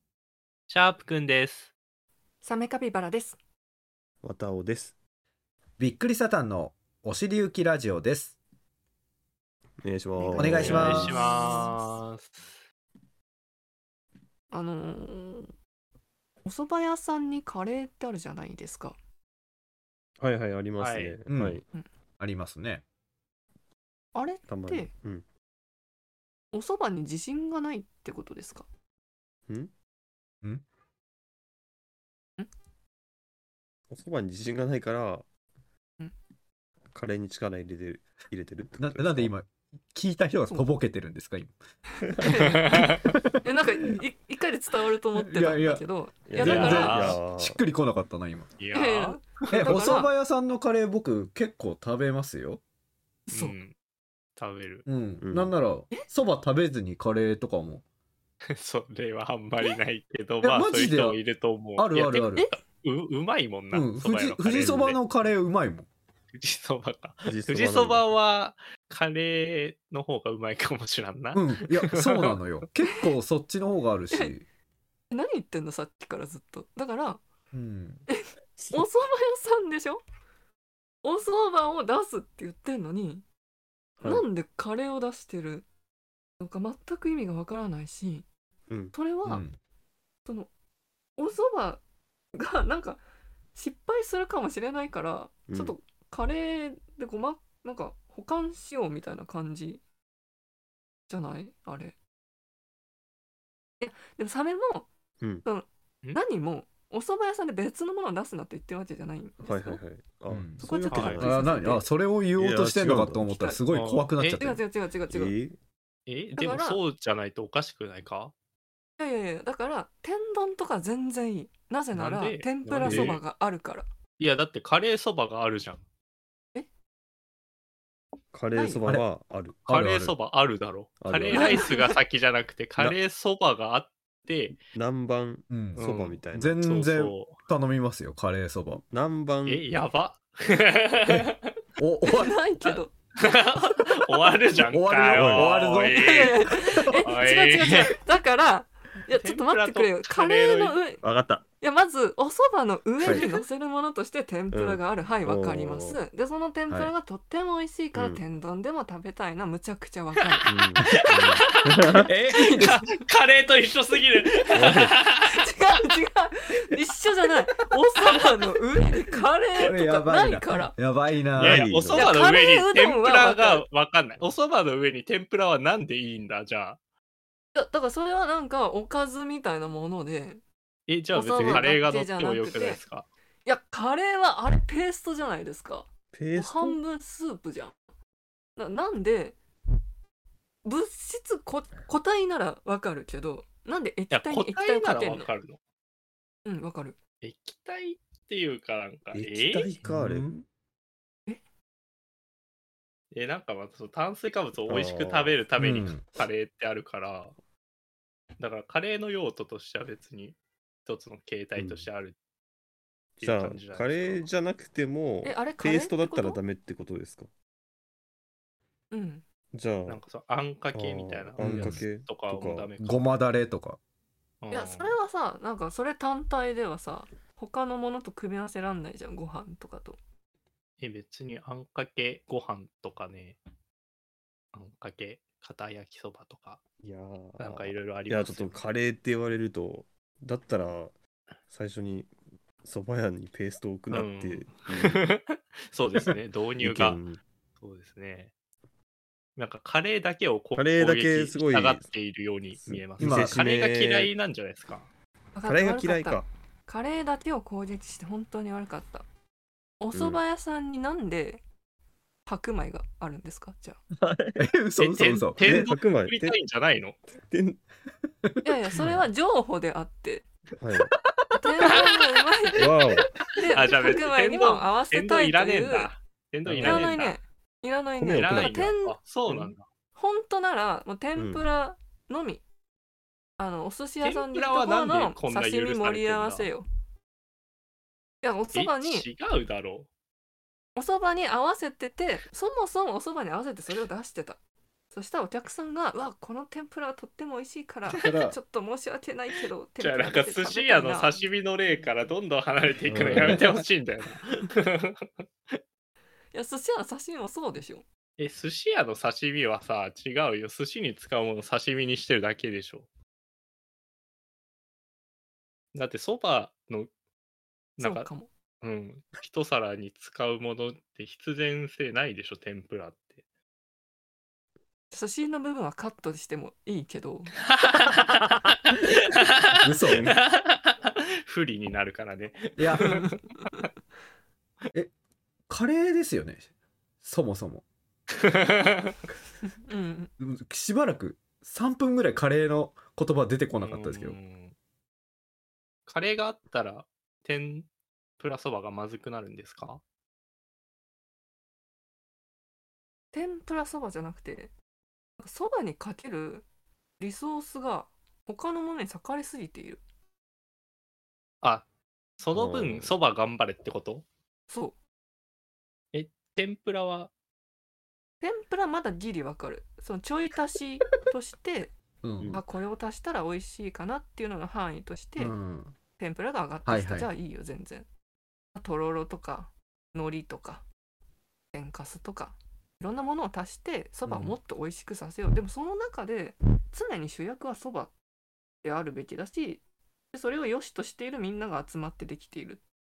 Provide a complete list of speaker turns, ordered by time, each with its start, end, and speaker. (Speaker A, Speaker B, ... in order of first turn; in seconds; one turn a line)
Speaker A: 0.7-1.7
Speaker B: 2.4-3.4
Speaker C: 4.2-5.0
Speaker D: 5.8-8.4
Speaker C: 9.8-11.2
Speaker B: 10.2-12.0
Speaker D: 10.3-11.2
Speaker A: 10.6-12.6
Speaker B: 14.5-15.5
Speaker B: 16.4-19.0
Speaker C: 20.2-21.6
Speaker A: 20.8-21.2
Speaker D: 21.3-21.6
Speaker D: 22.2-22.8
Speaker B: 24.1-24.9
Speaker C: 24.5-25.2
Speaker B: 26.5-28.7
Speaker C: 33.9-35.3
Speaker C: 36.9-39.3
Speaker D: 38.8-41.5
Speaker B: 42.2-42.9
Speaker D: 42.8-43.8
Speaker B: 43.4-47.1
Speaker D: 45.2-48.5
Speaker C: 46.3-47.6
Speaker A: 46.4-47.2
Speaker A: 48.6-49.9
Speaker B: 48.7-50.1
Speaker D: 49.5-52.6
Speaker B: 53.3-53.6
Speaker A: 53.3-53.8
Speaker A: 54.4-54.9
Speaker D: 54.9-57.8
Speaker C: 55.2-55.6
Speaker A: 58.6-65.0
Speaker D: 60.4-61.2
Speaker D: 61.8-62.5
Speaker D: 63.7-65.9
Speaker A: 66.3-72.4
Speaker C: 67.2-68.1
Speaker D: 71.3-74.5
Speaker B: 75.1-77.2
Speaker D: 77.5-78.1
Speaker B: 78.1-80.0
Speaker B: 81.0-83.2
Speaker C: 84.0-84.2
Speaker B: 84.0-85.7
Speaker B: 86.4-88.3
Speaker C: 88.7-89.0
Speaker B: 88.9-89.5
Speaker D: 89.3-89.6
Speaker B: 90.2-90.5
Speaker B: 91.2-91.8
Speaker B: 92.3-93.0
Speaker B: 93.5-99.8
Speaker C: 95.5-95.8
Speaker B: 101.1-102.0
Speaker B: 103.8-104.9
Speaker B: 105.4-109.8
Speaker C: 109.4-111.6
Speaker D: 110.3-110.6
Speaker B: 110.6-111.8
Speaker A: 110.9-111.2
Speaker D: 111.2-114.6
Speaker C: 112.3-113.3
Speaker B: 113.3-113.6
Speaker A: 113.7-114.5
Speaker B: 114.3-115.4
Speaker C: 115.1-115.6
Speaker A: 116.1-118.3
Speaker B: 116.4-116.8
Speaker B: 119.0-123.9
Speaker A: 121.9-123.2
Speaker C: 122.8-123.2
Speaker A: 124.2-125.8
Speaker C: 128.3-129.7
Speaker B: 128.5-128.8
Speaker A: 129.7-134.6
Speaker D: 129.7-130.2
Speaker C: 131.0-131.8
Speaker B: 131.3-131.9
Speaker C: 134.7-136.6
Speaker D: 135.5-135.8
Speaker A: 135.8-137.4
Speaker D: 136.3-138.8
Speaker C: 138.8-139.6
Speaker A: 139.5-141.5
Speaker D: 141.8-142.3
Speaker B: 142.0-142.9
Speaker A: 142.6-148.0
Speaker D: 144.7-147.1
Speaker C: 145.1-145.5
Speaker B: 145.9-151.0
Speaker A: 149.1-150.8
Speaker C: 151.0-151.4
Speaker B: 151.6-160.5
Speaker C: 153.0-153.3
Speaker C: 154.5-156.0
Speaker C: 157.9-158.2
Speaker C: 160.5-162.0
Speaker A: 161.0-161.5
Speaker D: 161.9-162.8
Speaker A: 162.1-165.5
Speaker B: 162.3-162.8
Speaker C: 164.5-164.9
Speaker B: 165.2-170.8
Speaker D: 169.6-171.7
Speaker C: 171.4-172.1
Speaker A: 171.4-176.8
Speaker B: 171.9-173.6
Speaker B: 177.5-180.4
Speaker A: 180.9-183.1
Speaker B: 181.1-182.8
Speaker C: 181.3-181.7
Speaker B: 183.4-187.8
Speaker C: 186.1-186.8
Speaker B: 188.6-189.4
Speaker B: 190.6-195.3
Speaker A: 194.1-195.6
Speaker B: 196.4-197.0
Speaker A: 197.2-199.7
Speaker C: 199.1-200.3
Speaker D: 199.8-200.4
Speaker A: 203.1-207.3
Speaker C: 204.7-205.4
Speaker D: 205.6-206.0
Speaker A: 208.4-212.2
Speaker C: 211.6-211.9
Speaker A: 213.2-214.3
Speaker C: 213.2-217.3
Speaker B: 215.2-216.4
Speaker B: 218.9-219.2
Speaker C: 219.5-220.0
Speaker A: 219.9-223.2
Speaker C: 220.7-222.7
Speaker D: 221.4-221.8
Speaker D: 222.8-223.8
Speaker A: 224.4-224.9
Speaker B: 224.5-230.0
Speaker A: 230.8-233.4
Speaker A: 234.5-236.6
Speaker C: 236.8-240.9
Speaker A: 237.4-238.6
Speaker C: 241.5-245.0
Speaker A: 243.9-247.0
Speaker C: 246.6-247.2
Speaker A: 247.6-248.3
Speaker A: 249.4-254.9
Speaker C: 250.6-251.9
Speaker C: 252.6-254.1
Speaker D: 253.0-253.4
Speaker B: 255.3-259.1
Speaker C: 255.5-256.3
Speaker B: 259.8-261.4
Speaker C: 259.9-260.2
Speaker B: 262.3-263.8
Speaker C: 264.0-264.5
Speaker D: 264.4-265.7
Speaker A: 264.8-267.0
Speaker C: 265.4-266.4
Speaker C: 267.2-267.6
Speaker D: 268.3-269.0
Speaker B: 268.4-270.2
Speaker C: 270.6-270.9
Speaker B: 271.3-275.9
Speaker C: 272.6-273.1
Speaker A: 273.5-277.2
Speaker C: 276.4-277.0
Speaker B: 276.6-279.0
Speaker C: 278.0-278.6
Speaker A: 278.1-279.6
Speaker B: 280.0-282.4
Speaker C: 281.2-281.5
Speaker B: 283.4-286.6
Speaker A: 284.0-286.5
Speaker B: 288.2-289.1
Speaker A: 288.5-289.9
Speaker B: 290.8-294.4
Speaker B: 294.9-301.2
Speaker D: 297.9-298.4
Speaker A: 299.8-305.6
Speaker C: 302.9-303.4
Speaker D: 303.1-303.4
Speaker B: 306.3-307.8
Speaker A: 308.2-312.9
Speaker A: 315.7-316.9
Speaker A: 317.8-318.1
Speaker B: 317.8-318.3
Speaker A: 318.6-323.2
Speaker B: 324.9-327.3
Speaker A: 327.6-328.8
Speaker D: 329.6-330.2
Speaker A: 329.9-333.2
Speaker D: 332.6-333.0
Speaker D: 335.5-336.5
Speaker D: 337.0-337.6
Speaker A: 338.3-338.9
Speaker B: 339.6-340.1
Speaker D: 340.2-344.2
Speaker A: 343.6-344.6
Speaker A: 345.9-347.7
Speaker A: 348.2-349.8
Speaker B: 353.1-354.5
Speaker B: 355.2-356.4
Speaker B: 357.0-359.8
Speaker A: 361.4-361.7
Speaker A: 362.2-364.1
Speaker C: 362.3-363.0
Speaker B: 364.5-364.8
Speaker A: 365.9-367.1
Speaker B: 368.2-371.7
Speaker D: 372.0-372.4
Speaker B: 372.3-375.3
Speaker D: 375.2-375.8
Speaker B: 376.0-377.9
Speaker D: 376.7-377.1
Speaker B: 378.6-380.6
Speaker B: 381.5-387.9
Speaker D: 384.1-384.4
Speaker B: 388.6-392.6